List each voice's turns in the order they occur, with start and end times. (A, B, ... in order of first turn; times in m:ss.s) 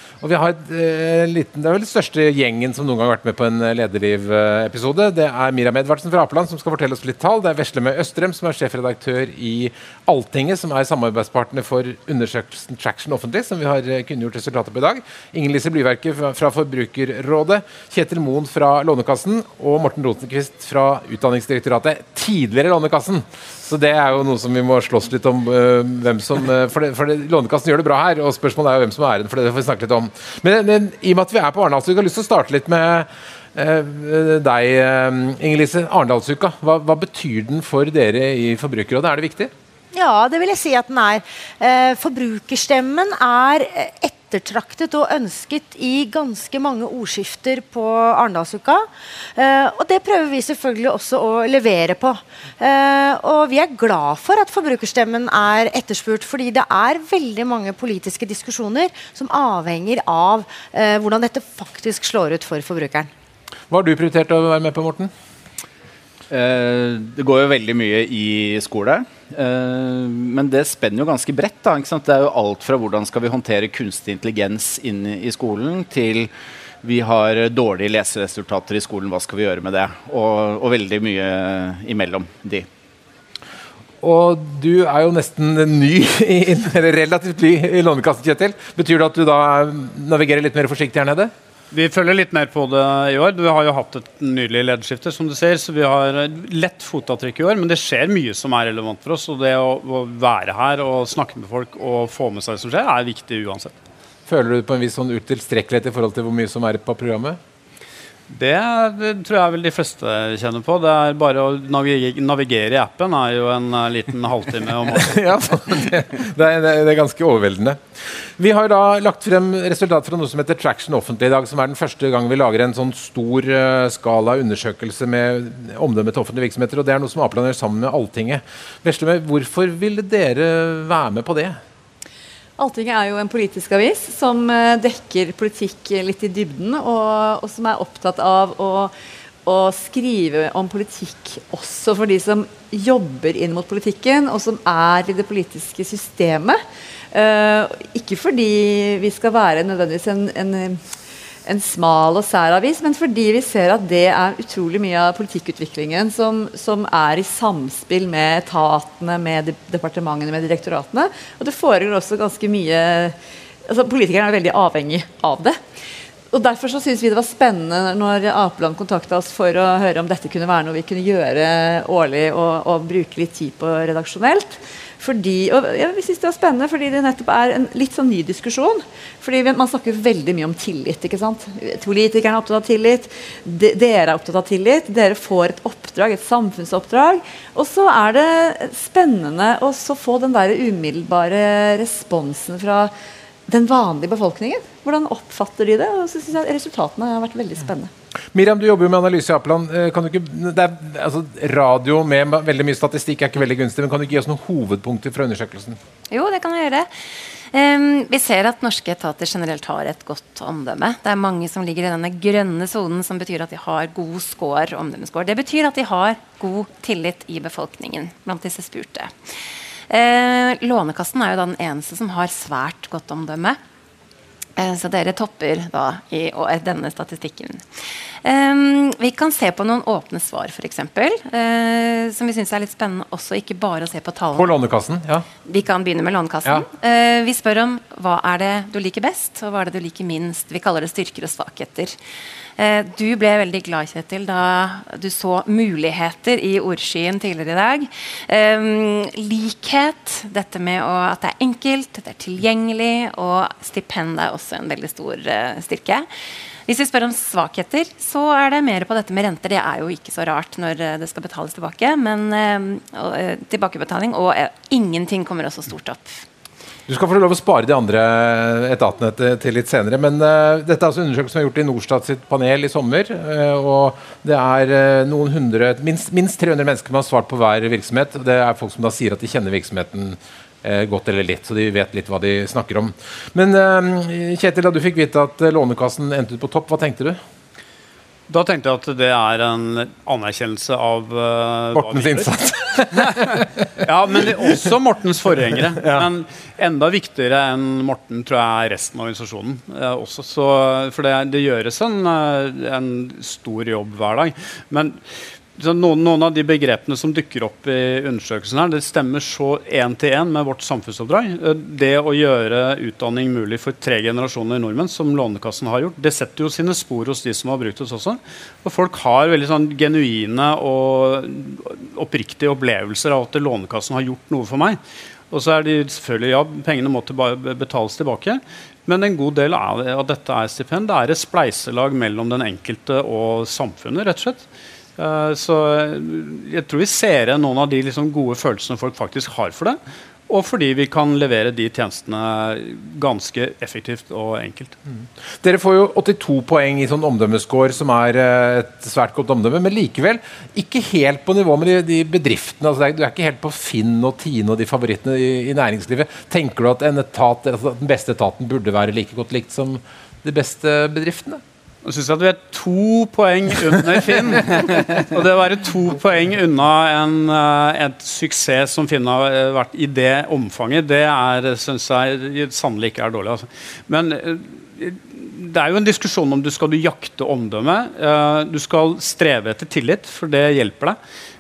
0:00.2-0:39.5 A
0:39.9-1:03.1 B
1:03.7-1:05.1 A
1:06.3-1:16.3 C
1:16.8-1:22.7 C
1:24.0-1:31.3 A
1:31.7-1:43.8 D
1:44.3-1:47.4 A
1:48.3-1:55.8 D
1:55.0-2:11.6 A
2:12.6-2:18.9 E
2:19.4-2:26.6 E
2:27.1-2:30.8 E
2:31.5-2:45.6 E
2:46.3-3:12.9 E
3:13.5-3:17.9 E
3:18.3-3:25.8 A
3:26.1-3:26.9 F
3:27.5-3:39.1 F
3:39.9-3:43.6 F
3:44.6-3:54.5 F
3:54.4-3:55.3 A
3:55.5-4:02.0 F
4:02.6-4:16.1 F
4:16.7-4:26.2 F
4:26.9-4:47.2 A
4:48.3-5:05.0 D
4:51.8-4:53.6 A
4:55.8-4:56.1 A
5:05.6-5:24.8 D
5:25.3-5:34.5 D
5:35.0-5:44.8 D
5:45.0-6:01.4 A
6:01.8-6:21.0 D